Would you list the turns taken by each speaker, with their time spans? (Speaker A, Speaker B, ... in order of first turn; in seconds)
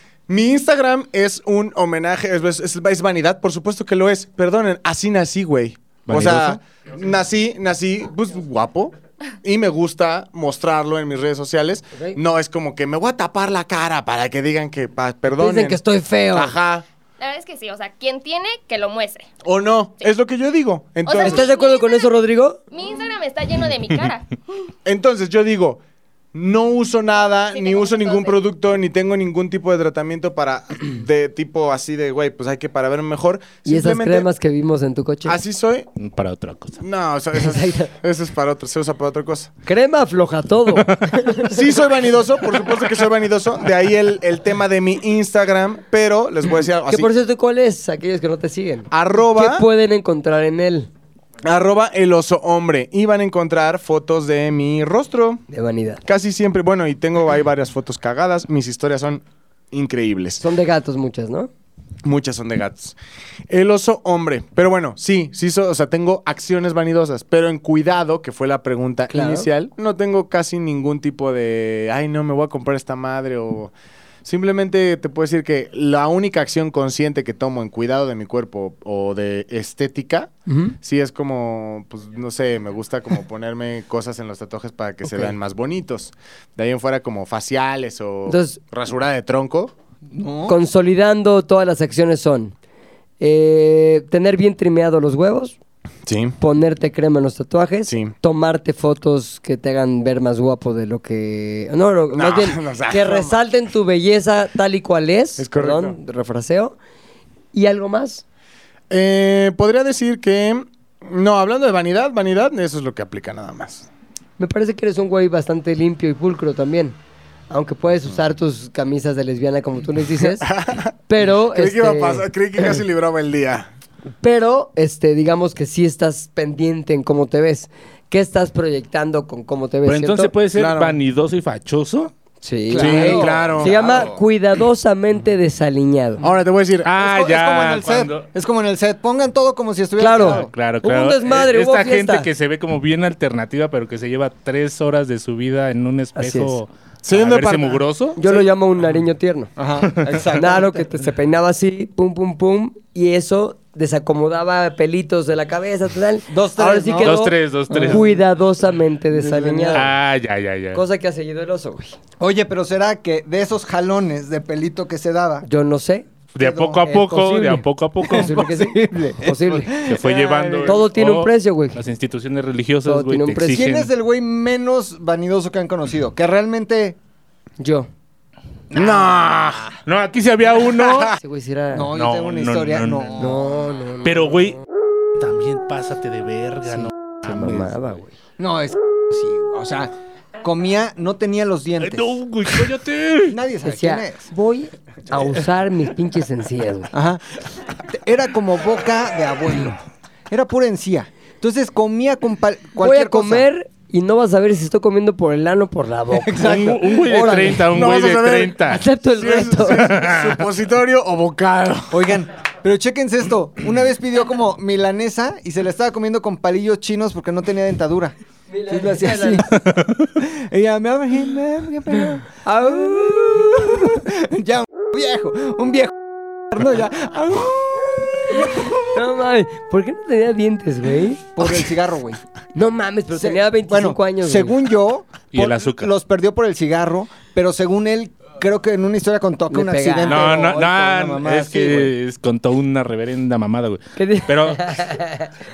Speaker A: 0.3-15.8, 16.3-16.8, 19.4-21.5, 24.9-25.8, 26.3-34.3, 35.2-35.9, 36.8-39.5, 41.4-47.1, 48.9-49.6, 51.4-55.4, 56.0-60.4, 62.0-63.0, 63.5-73.7, 74.2-80.3, 80.8-89.7, 96.0-96.4, 97.8-98.1, 102.1-103.4, 105.4-106.0, 108.9-113.9, 120.2-120.9, 121.5-123.7, 130.5-131.0, 132.7-134.1, 136.2-136.9, 147.0-147.8, 178.7-179.6, 180.7-181.1, 207.7-212.2
Speaker B: 6.0-6.6, 36.0-36.8, 129.8-132.1, 136.8-138.3, 140.2-148.2, 157.0-158.1, 159.7-160.8, 166.3-168.4, 169.7-173.9, 179.8-181.2, 181.9-183.3, 184.0-184.6, 185.2-187.9, 191.8-193.4, 206.4-208.8, 209.7-210.4, 235.3-235.9, 240.0-244.8
Speaker C: 15.4-16.5, 21.2-22.6, 33.6-35.4, 37.4-37.9, 39.6-41.6, 46.8-50.9, 55.5-56.0, 60.4-61.5, 69.1-69.5, 80.5-80.7, 85.0-85.3, 88.3-88.6, 90.5-92.5, 93.2-95.5, 96.4-106.7, 107.5-108.2, 114.4-117.0, 117.5-120.5, 121.1-122.8, 124.2-130.3, 132.4-136.2, 140.0-142.3, 146.2-146.6, 148.2-149.5, 150.3-159.9, 160.7-162.0, 165.4-166.1, 166.8-169.8, 170.6-171.8, 172.8-173.7, 177.6-177.9, 181.2-181.9, 183.2-184.4, 186.7-188.2, 193.6-196.9, 202.8-207.6, 208.7-209.9, 218.5-219.4, 222.8-223.6, 228.3-231.4, 232.5-234.5, 239.5-240.5, 243.9-245.3
Speaker D: 17.2-19.3, 21.0-22.2, 22.7-24.4, 27.2-28.4
Speaker E: 90.1-90.6, 132.7-134.2, 137.0-140.5, 149.6-151.0, 156.3-157.2, 157.8-158.2, 159.1-159.9, 162.2-165.4, 166.4-166.9, 168.0-170.9, 173.5-177.0, 178.7-179.8, 181.7-183.6, 188.4-189.9, 190.4-192.6, 193.3-194.3, 196.9-199.8, 200.3-203.4, 206.2-207.6, 211.9-218.1, 218.7-219.6, 220.1-228.8, 231.3-232.2, 233.1-241.9